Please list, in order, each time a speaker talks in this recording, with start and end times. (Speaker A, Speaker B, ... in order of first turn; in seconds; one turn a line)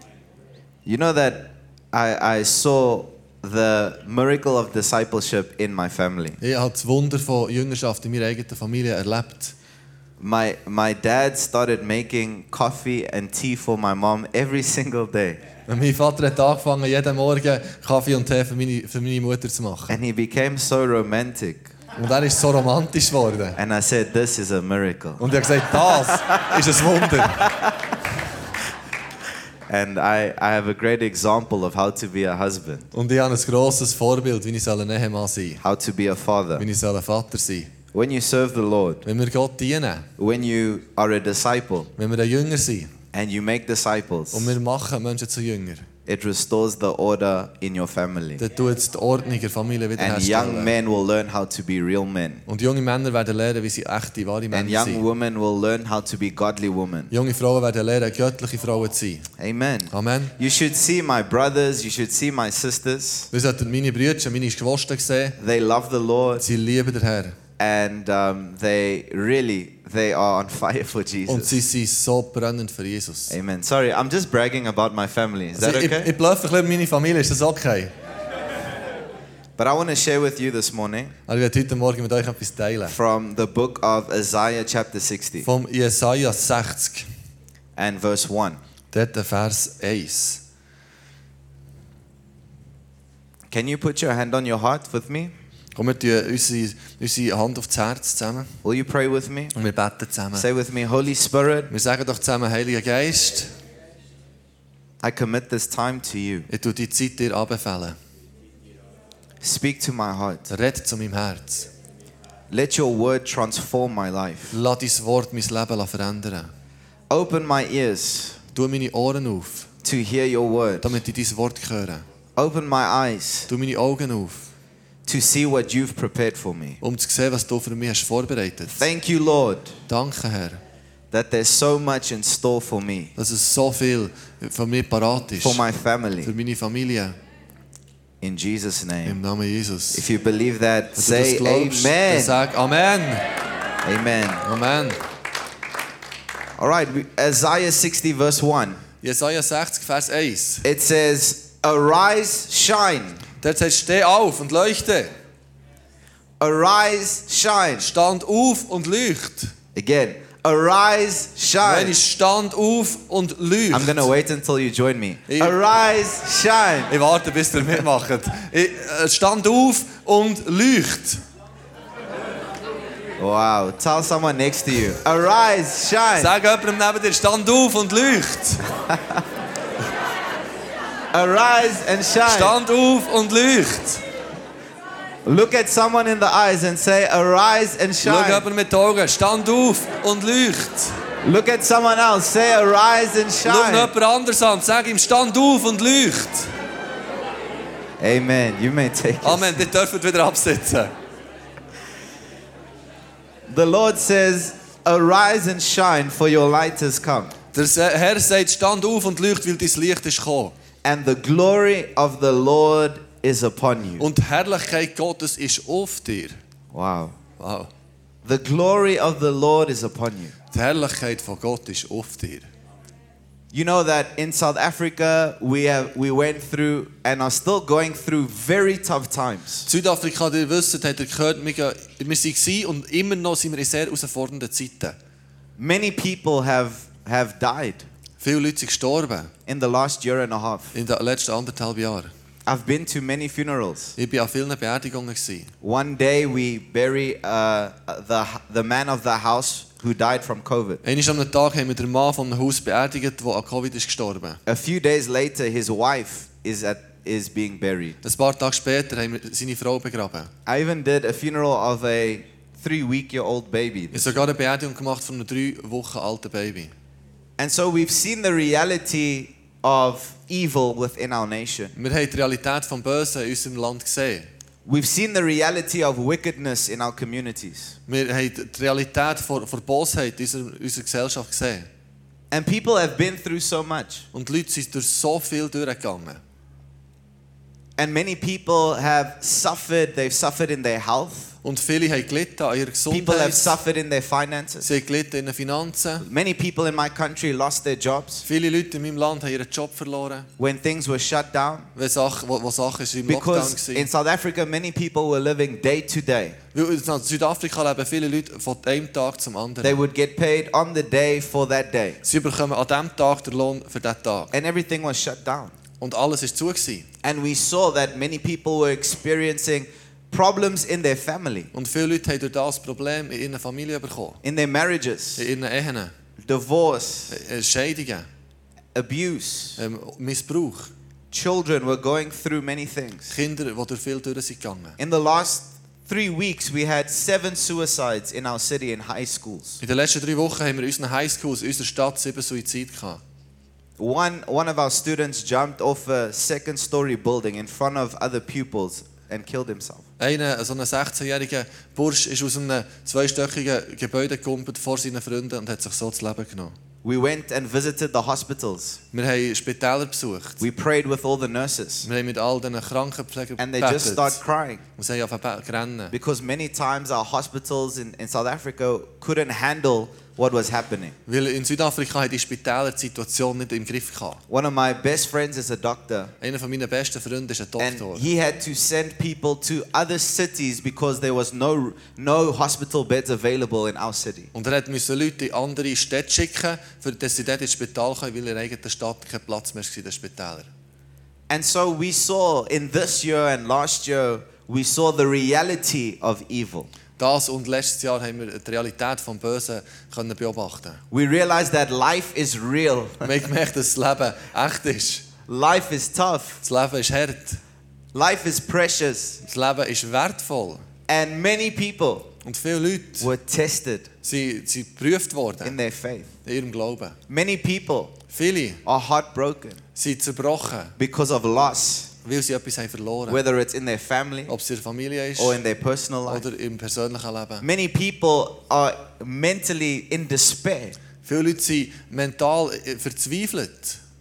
Speaker A: 0.8-6.4
Speaker B: 6.4-9.5
Speaker A: 10.2-15.4
Speaker B: 15.7-20.0
Speaker A: 19.9-21.7
Speaker B: 21.9-23.6
Speaker A: 23.6-26.6
Speaker B: 25.2-27.5
Speaker A: 27.2-27.8
Speaker A: 29.7-32.9
Speaker B: 32.9-35.6
Speaker A: 35.6-36.6
Speaker B: 36.6-37.7
Speaker A: 37.9-39.0
Speaker B: 39.0-40.1
Speaker A: 40.2-41.9
Speaker B: 42.0-42.9
Speaker A: 43.1-44.5
Speaker B: 44.3-45.9
Speaker A: 46.0-48.4
Speaker B: 48.4-50.8
Speaker A: 50.0-52.4
Speaker B: 52.5-55.0
Speaker A: 54.5-57.1
Speaker B: 57.1-59.3
Speaker A: 59.4-63.3
Speaker B: 59.9-60.3
Speaker B: 63.3-65.4
Speaker A: 65.4-66.4
Speaker B: 66.4-67.3
Speaker A: 67.6-71.6
Speaker B: 71.3-73.3
Speaker A: 73.3-76.1
Speaker B: 75.6-77.9
Speaker A: 79.6-81.1
Speaker B: 81.3-83.0
Speaker A: 82.9-85.5
Speaker B: 85.4-87.1
Speaker A: 87.8-88.6
Speaker B: 88.9-90.4
Speaker A: 93.5-95.3
Speaker B: 95.8-98.5
Speaker A: 98.6-99.5
Speaker B: 99.5-100.5
Speaker A: 100.3-101.7
Speaker B: 101.7-103.5
Speaker A: 105.0-106.5
Speaker B: 106.5-108.0
Speaker A: 109.4-110.5
Speaker B: 110.5-111.7
Speaker A: 112.5-114.6
Speaker B: 114.5-116.5
Speaker A: 117.1-118.4
Speaker B: 118.5-119.7
Speaker A: 119.8-121.0
Speaker B: 120.8-122.0
Speaker A: 122.3-123.5
Speaker B: 123.5-124.5
Speaker A: 125.0-126.8
Speaker B: 126.8-128.9
Speaker A: 128.8-129.7
Speaker B: 129.9-130.6
Speaker A: 131.1-133.1
Speaker B: 133.2-135.6
Speaker A: 135.4-136.3
Speaker B: 136.2-137.2
Speaker A: 138.2-139.2
Speaker B: 139.0-140.0
Speaker A: 139.9-142.4
Speaker B: 140.9-143.3
Speaker A: 143.8-144.4
Speaker B: 144.4-145.0
Speaker A: 146.6-148.8
Speaker B: 149.0-150.6
Speaker A: 150.6-153.2
Speaker B: 153.4-155.1
Speaker A: 156.4-157.9
Speaker B: 157.8-159.5
Speaker A: 159.7-162.0
Speaker B: 161.6-164.1
Speaker A: 163.7-166.9
Speaker B: 165.3-165.6
Speaker B: 166.9-171.2
Speaker A: 173.2-176.3
Speaker B: 176.1-178.6
Speaker A: 178.9-179.2
Speaker A: 181.1-182.5
Speaker B: 182.2-184.0
Speaker A: 185.2-188.4
Speaker B: 188.0-190.9
Speaker A: 191.2-193.9
Speaker B: 193.4-196.5
Speaker A: 198.0-199.6
Speaker B: 199.2-200.9
Speaker A: 203.5-207.3
Speaker B: 207.5-210.5
Speaker A: 210.8-214.1
Speaker B: 214.0-216.4
Speaker A: 216.7-217.2
Speaker B: 217.4-217.7
Speaker A: 218.2-220.3
Speaker B: 220.5-222.5
Speaker A: 223.5-229.7
Speaker B: 229.7-234.9
Speaker A: 235.6-237.9
Speaker B: 238.2-239.3
Speaker A: 239.5-240.7
Speaker B: 240.7-242.1
Speaker A: 242.4-243.9
Speaker B: 244.0-245.5
Speaker A: 245.6-250.8
Speaker B: 250.8-254.4
Speaker A: 254.4-258.0
Speaker B: 258.0-260.3
Speaker A: 260.4-264.2
Speaker B: 263.9-266.7
Speaker A: 267.4-271.7
Speaker B: 271.7-274.3
Speaker A: 274.6-277.8
Speaker B: 277.9-281.7
Speaker A: 282.3-284.1
Speaker B: 284.1-286.2
Speaker A: 287.8-291.4
Speaker B: 291.4-293.6
Speaker A: 292.9-294.7
Speaker B: 294.6-296.0
Speaker A: 296.0-298.2
Speaker B: 298.2-300.3
Speaker A: 300.4-301.7
Speaker B: 301.8-303.9
Speaker A: 303.1-306.4
Speaker B: 306.5-309.8
Speaker A: 309.6-312.0
Speaker B: 312.0-314.3
Speaker A: 314.3-315.5
Speaker B: 315.8-316.9
Speaker A: 317.0-321.5
Speaker B: 321.5-324.2
Speaker A: 324.2-325.2
Speaker B: 325.2-325.9
Speaker A: 326.2-327.2
Speaker B: 327.1-328.1
Speaker A: 328.7-329.6
Speaker B: 329.6-330.7
Speaker A: 331.1-333.1
Speaker B: 333.1-334.8
Speaker A: 334.8-339.6
Speaker B: 339.6-343.0
Speaker A: 343.8-349.8
Speaker B: 350.0-356.5
Speaker A: 356.8-358.8
Speaker B: 358.9-360.4
Speaker A: 360.4-361.9
Speaker B: 361.8-364.2
Speaker A: 363.4-364.6
Speaker B: 364.8-365.9
Speaker A: 365.9-370.9
Speaker B: 371.1-374.2
Speaker A: 374.3-376.1
Speaker B: 376.2-378.1
Speaker A: 377.6-384.3
Speaker B: 384.3-390.5
Speaker A: 391.3-396.7
Speaker B: 397.0-400.8
Speaker A: 400.9-403.2
Speaker B: 403.0-405.0
Speaker A: 405.3-406.4
Speaker B: 406.4-407.4
Speaker A: 407.9-409.2
Speaker B: 409.2-410.6
Speaker A: 410.9-412.1
Speaker B: 412.2-413.1
Speaker A: 413.0-413.9
Speaker B: 414.0-415.6
Speaker A: 415.4-416.1
Speaker B: 416.2-417.0
Speaker A: 417.1-418.0
Speaker B: 418.1-418.6
Speaker A: 418.6-419.6
Speaker B: 419.7-420.7
Speaker A: 420.8-421.9
Speaker B: 422.0-423.2
Speaker A: 423.1-424.3
Speaker B: 424.3-425.4
Speaker A: 425.2-426.2
Speaker B: 426.1-427.4
Speaker A: 427.4-430.8
Speaker B: 431.0-433.8